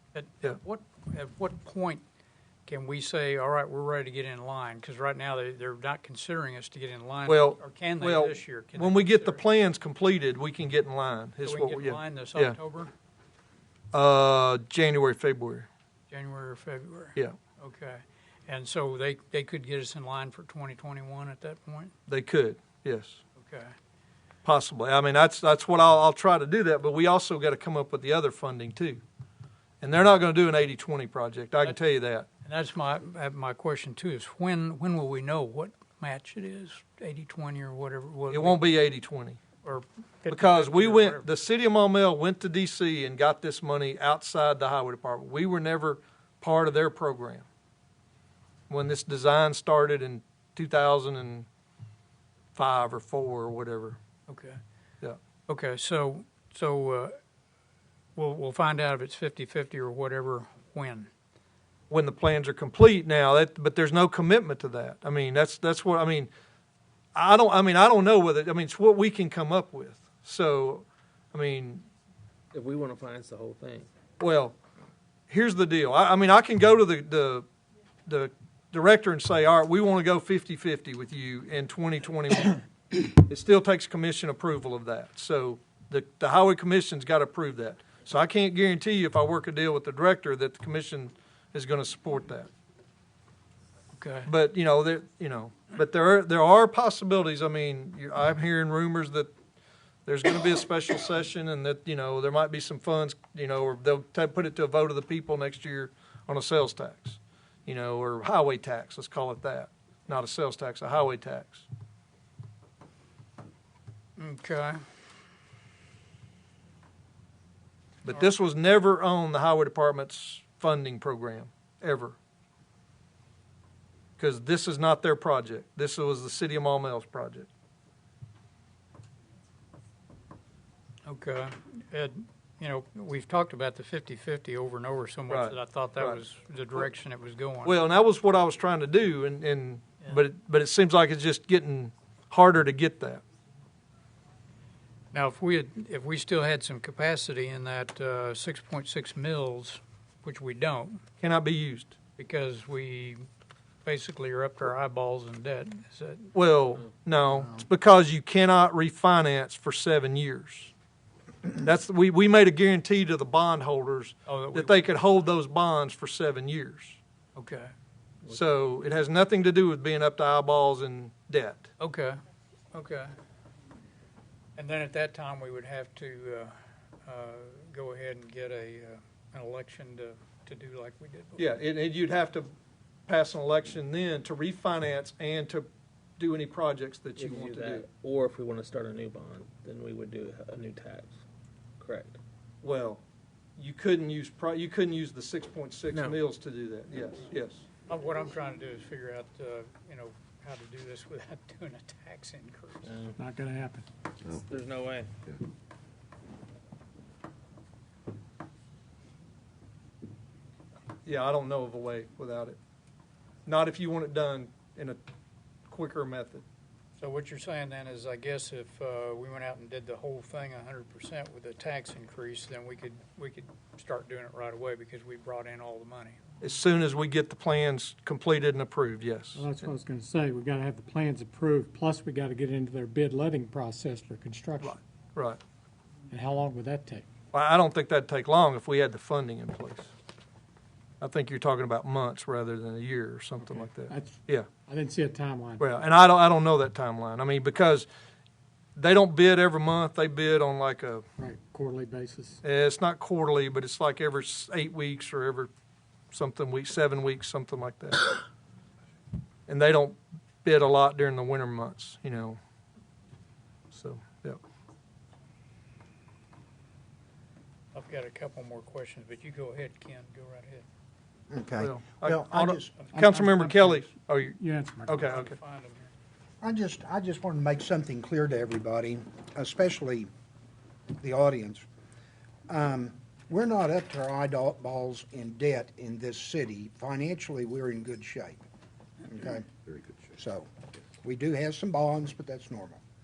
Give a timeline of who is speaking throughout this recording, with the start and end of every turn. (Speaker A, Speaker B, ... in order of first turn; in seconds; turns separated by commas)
Speaker A: 0.1-2.0, Speaker A: 2.7-9.4, Speaker B: 7.3-12.6, Speaker A: 11.4-12.9, Speaker B: 13.9-15.7, Speaker A: 16.1-21.9, Speaker B: 22.1-23.2, Speaker A: 23.4-23.7, Speaker B: 24.4-29.0, Speaker B: 29.8-32.3, Speaker A: 32.4-38.6, Speaker B: 38.3-39.4, Speaker A: 39.6-41.3, Speaker B: 40.3-47.5, Speaker B: 48.7-51.5, Speaker B: 52.5-54.0, Speaker A: 54.3-54.6, Speaker A: 55.5-57.2, Speaker A: 58.2-61.1, Speaker B: 61.9-66.3, Speaker B: 67.2-71.8, Speaker C: 72.5-73.9, Speaker B: 74.2-74.5, Speaker B: 75.3-77.5, Speaker B: 78.1-92.5, Speaker A: 94.0-94.3, Speaker B: 94.3-99.3, Speaker B: 100.1-111.7, Speaker A: 114.2-114.8, Speaker B: 118.0-122.2, Speaker B: 124.2-127.5, Speaker A: 131.1-137.8, Speaker B: 135.3-136.2, Speaker B: 137.7-143.2, Speaker A: 145.1-151.0, Speaker B: 151.2-151.9, Speaker A: 152.2-153.3, Speaker A: 153.8-156.3, Speaker B: 156.3-160.7, Speaker A: 157.3-157.6, Speaker B: 161.6-167.0, Speaker A: 164.3-164.9, Speaker A: 167.4-167.7, Speaker B: 168.3-171.7, Speaker A: 171.8-172.2, Speaker A: 172.7-173.1, Speaker A: 174.6-176.5, Speaker A: 177.1-181.5, Speaker B: 181.4-182.5, Speaker B: 183.1-187.9, Speaker C: 187.2-191.2, Speaker C: 191.8-192.2, Speaker B: 192.6-193.0, Speaker B: 193.6-197.7, Speaker C: 195.9-196.2, Speaker A: 197.9-203.0, Speaker C: 202.9-203.2, Speaker D: 203.2-203.9, Speaker C: 204.3-205.2, Speaker B: 211.1-212.6, Speaker B: 213.5-215.0, Speaker B: 215.7-216.4, Speaker A: 217.0-226.2, Speaker B: 226.4-229.7, Speaker D: 229.3-234.8, Speaker B: 234.6-235.4, Speaker D: 236.1-237.1, Speaker B: 237.3-239.9, Speaker B: 241.0-244.5, Speaker D: 243.5-245.8, Speaker B: 245.6-247.9, Speaker B: 248.8-251.0, Speaker D: 251.2-252.4, Speaker B: 252.4-255.5, Speaker B: 256.1-258.1, Speaker B: 259.5-262.4, Speaker B: 263.7-264.4, Speaker A: 267.8-270.6, Speaker E: 271.3-273.0, Speaker B: 271.6-275.4, Speaker A: 272.9-273.6, Speaker D: 274.4-275.0, Speaker A: 275.0-275.9, Speaker E: 276.4-280.1, Speaker E: 281.0-281.6, Speaker E: 282.5-288.4, Speaker E: 289.1-289.5, Speaker E: 290.1-290.5, Speaker E: 291.0-292.8